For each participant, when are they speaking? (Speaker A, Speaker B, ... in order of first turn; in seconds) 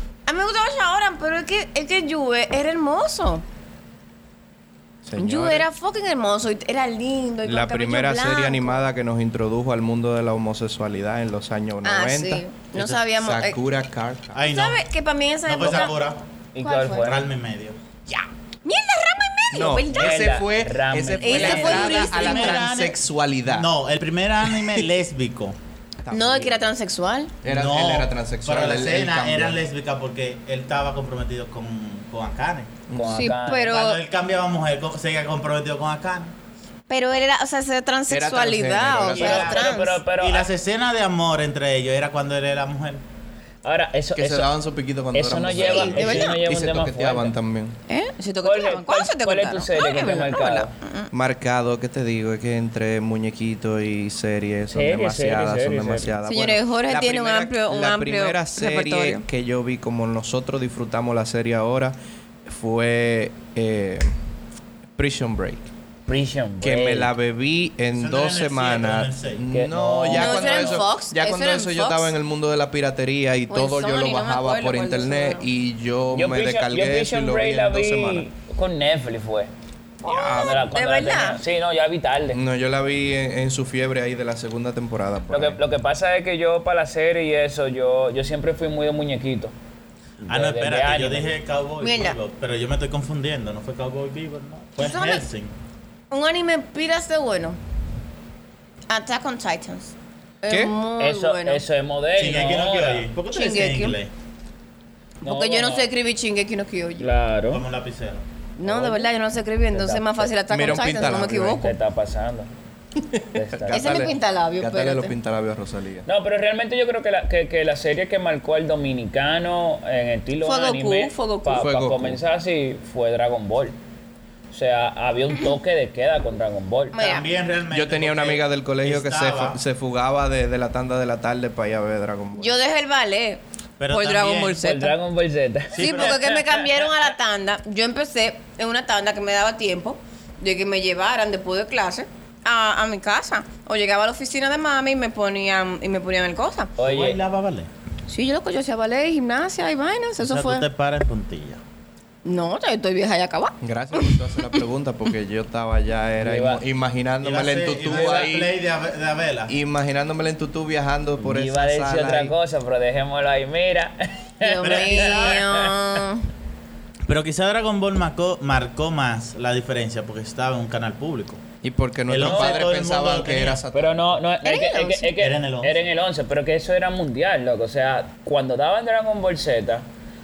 Speaker A: 0.2-3.4, 5.2-8.8, 11.8-13.6, 14.4-16.0, 16.6-17.1, 18.6-20.3, 21.2-22.7, 26.1-27.3, 33.0-34.0, 36.9-40.0, 45.5-46.4, 47.9-51.1, 56.2-59.2, 70.1-72.1, 73.5-75.4, 80.0-81.4, 91.8-92.2, 94.8-95.2, 96.1-97.6, 98.9-101.6, 103.3-104.0, 105.2-107.1, 108.6-111.7, 113.7-115.1, 120.4-121.7, 126.9-127.2, 132.3-134.9, 135.8-146.7, 148.1-150.7, 152.2-154.6, 164.4-166.2, 174.4-175.1
Speaker B: 5.0-5.7, 7.4-12.4, 13.0-14.4, 19.5-23.7, 24.6-24.8, 26.0-26.6, 27.4-29.6, 32.9-33.4, 38.1-39.7, 44.1-47.8, 51.1-61.9, 62.5-64.1, 65.0-65.7, 66.6-78.2, 80.0-80.7, 82.3-85.6, 100.5-100.8, 110.5-111.6, 113.0-116.1, 121.5-122.2, 127.7-132.5, 153.6-158.5, 159.5-162.3, 171.6-174.1
Speaker C: 12.7-13.0, 14.3-14.8, 15.4-16.2, 17.0-17.8, 21.3-25.6, 27.4-32.8, 33.6-36.3, 39.1-43.0, 67.9-69.4, 90.2-95.5, 102.2-104.1, 107.5-108.2, 127.0-129.6, 133.8-134.7, 135.7-136.3, 146.8-147.7, 150.2-151.6, 157.2-159.5, 164.6-165.4, 167.1-171.4, 172.1-173.6, 175.2-175.8
Speaker D: 16.5-17.2, 19.9-22.0, 33.0-33.8, 39.2-40.5, 43.6-44.5, 45.1-47.3, 48.4-50.7, 54.7-56.1, 66.1-67.1, 69.5-70.8, 76.1-79.5, 80.3-82.4, 85.3-89.5, 90.2-91.3, 101.0-103.1, 105.2-105.9, 107.0-107.6, 108.6-109.1, 109.7-112.5, 113.3-113.8, 116.0-123.8, 124.5-127.0, 134.6-136.8, 146.8-147.2, 156.2-156.6, 157.9-158.3, 161.2-165.7, 172.2-172.6, 173.7-179.8